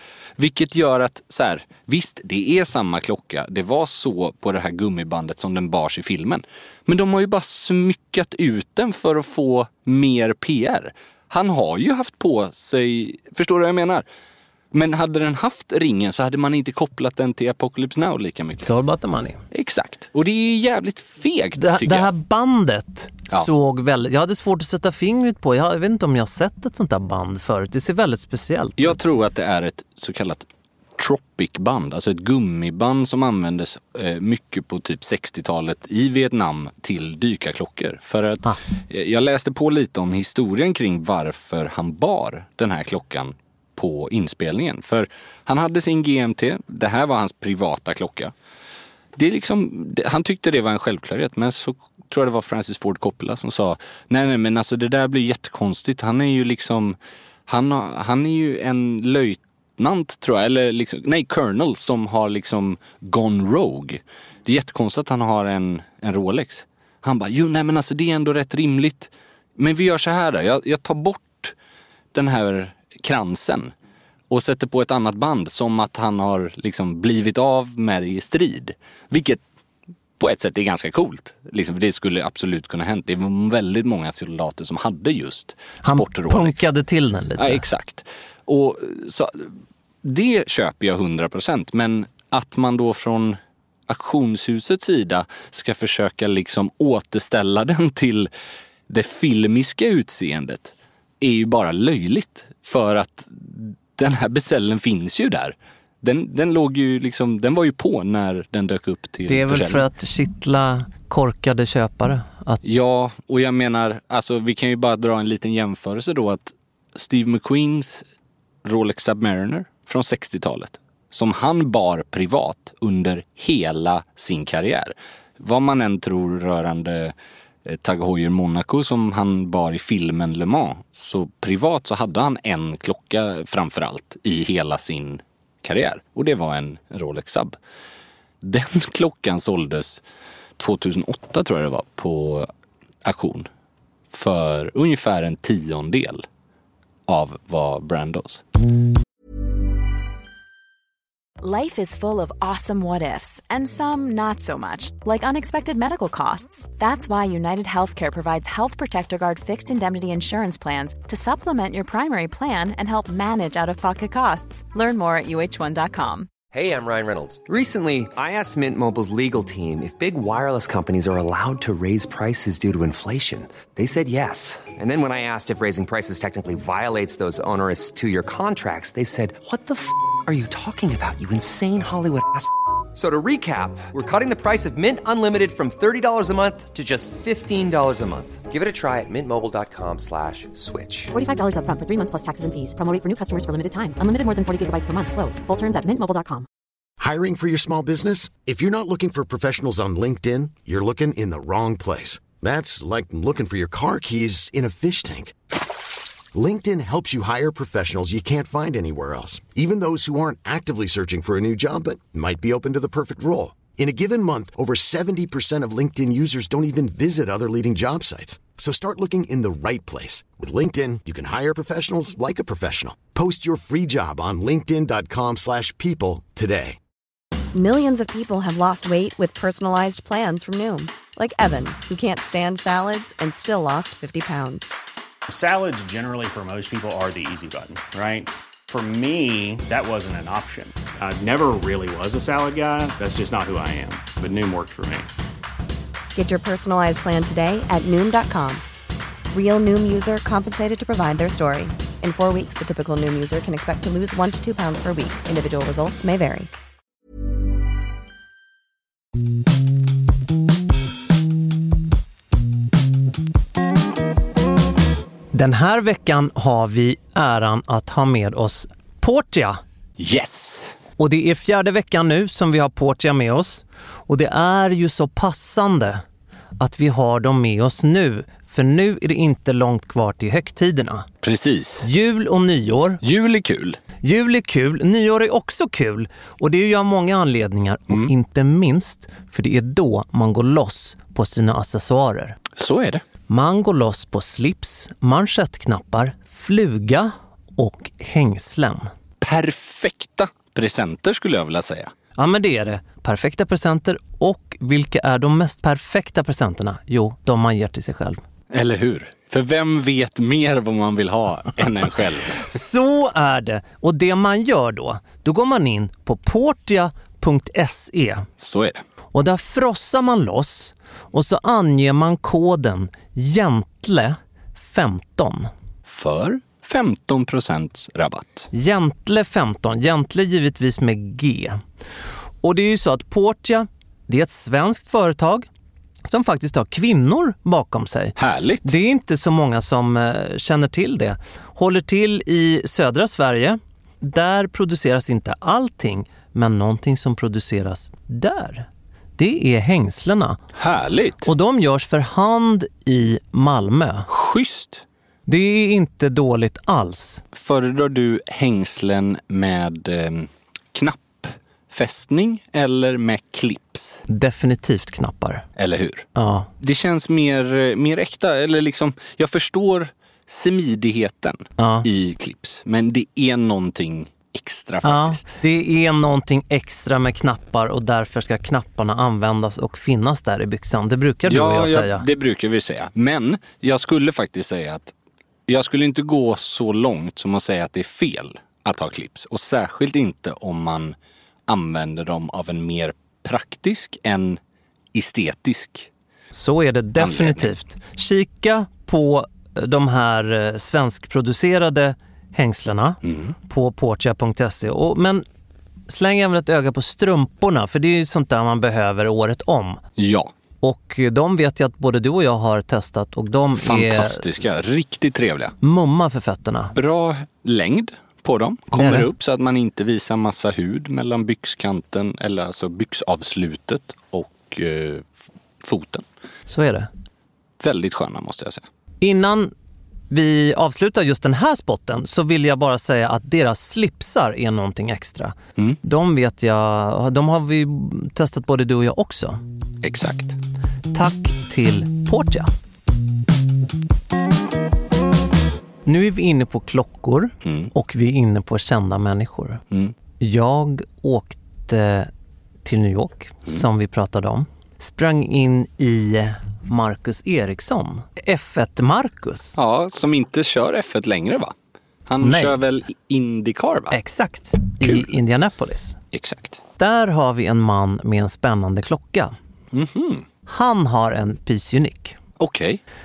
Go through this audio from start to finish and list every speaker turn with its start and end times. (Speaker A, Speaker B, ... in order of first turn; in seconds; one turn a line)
Speaker A: 0.4-14.1
Speaker A: 14.7-18.7
Speaker B: 18.6-19.4
Speaker A: 19.5-22.1
Speaker B: 21.6-29.0
Speaker A: 28.8-30.5
Speaker A: 31.0-48.3
Speaker A: 49.2-57.0
Speaker A: 57.5-71.5
Speaker A: 72.1-73.7
Speaker A: 74.3-79.4
Speaker A: 80.2-86.7
Speaker B: 85.8-87.6
Speaker A: 87.4-98.3
Speaker A: 98.9-109.8
Speaker B: 109.3-112.6
Speaker A: 112.6-118.0
Speaker A: 118.6-127.1
Speaker A: 127.7-137.6
Speaker A: 138.4-140.0
Speaker A: 140.6-142.5
Speaker A: 143.0-143.5
Speaker A: 144.1-146.2
Speaker A: 147.1-148.4
Speaker C: 151.4-166.3
Speaker D: 166.5-191.1
Speaker E: 191.1-196.5
Speaker F: 197.0-205.3
Speaker F: 206.3-226.8
Speaker G: 227.5-234.7
Speaker H: 235.3-245.1
Speaker G: 246.2-248.6
Speaker G: 249.3-256.5
Speaker B: 265.3-269.6
Speaker A: 270.0-270.8
Speaker B: 271.0-276.0
Speaker B: 276.6-281.1
Speaker A: 281.2-281.9
Speaker B: 281.8-283.0
Speaker A: 283.0-283.8
Speaker B: 284.0-292.4
Speaker A: 292.6-293.0
Speaker B: 293.3-298.9
Speaker A: 299.2-301.9
Speaker B: 302.2-308.2
Speaker A: 308.5-312.5
Speaker B: 312.4-318.3
Speaker A: 318.4-318.8
Speaker B: 319.1-325.5
Speaker A: 325.9-328.5
Speaker B: 328.5-331.6
Speaker B: 332.4-335.5
Speaker B: 336.1-348.7
Speaker A: 338.2-338.7
Speaker B: 349.2-350.4
Speaker A: 350.6-351.3
Speaker B: 351.2-354.1
Speaker A: 354.1-354.8
Speaker B: 355.3-357.2
Speaker A: 357.3-364.0
Speaker B: 364.1-365.4
Speaker A: 365.6-366.1
Speaker B: 366.2-366.5
Speaker A: 366.6-375.4
Speaker B: 371.6-371.9
Speaker B: 374.8-382.1
Speaker A: 381.3-384.9
Speaker A: 385.5-390.9
Speaker A: 391.5-394.4
Speaker A: 394.9-395.9
Speaker B: 396.3-405.2
Speaker A: 397.0-397.5
Speaker A: 403.0-403.4
Speaker B: 405.9-409.8
Speaker A: 410.0-410.3
Speaker B: 410.6-414.2
Speaker A: 413.6-415.6
Speaker B: 415.6-416.8
Speaker A: 416.8-425.1
Speaker B: 418.7-419.1
Speaker A: 425.6-426.1
Speaker B: 426.5-426.9
Speaker A: 427.6-428.6
Speaker B: 429.0-429.5
Speaker B: 430.1-439.4
Speaker A: 439.8-440.4
Speaker B: 440.9-442.5
Speaker B: 445.9-449.6
Speaker A: 447.4-447.7
Speaker B: 450.2-452.1
Speaker B: 452.6-459.6
Speaker A: 459.6-461.5
Speaker A: 462.1-464.0
Speaker B: 462.2-462.6
Speaker B: 463.9-466.0
Speaker A: 464.8-465.1
Speaker A: 466.1-466.6
Speaker B: 466.8-469.3
Speaker A: 469.7-470.3
Speaker B: 470.5-472.2
Speaker A: 472.4-472.8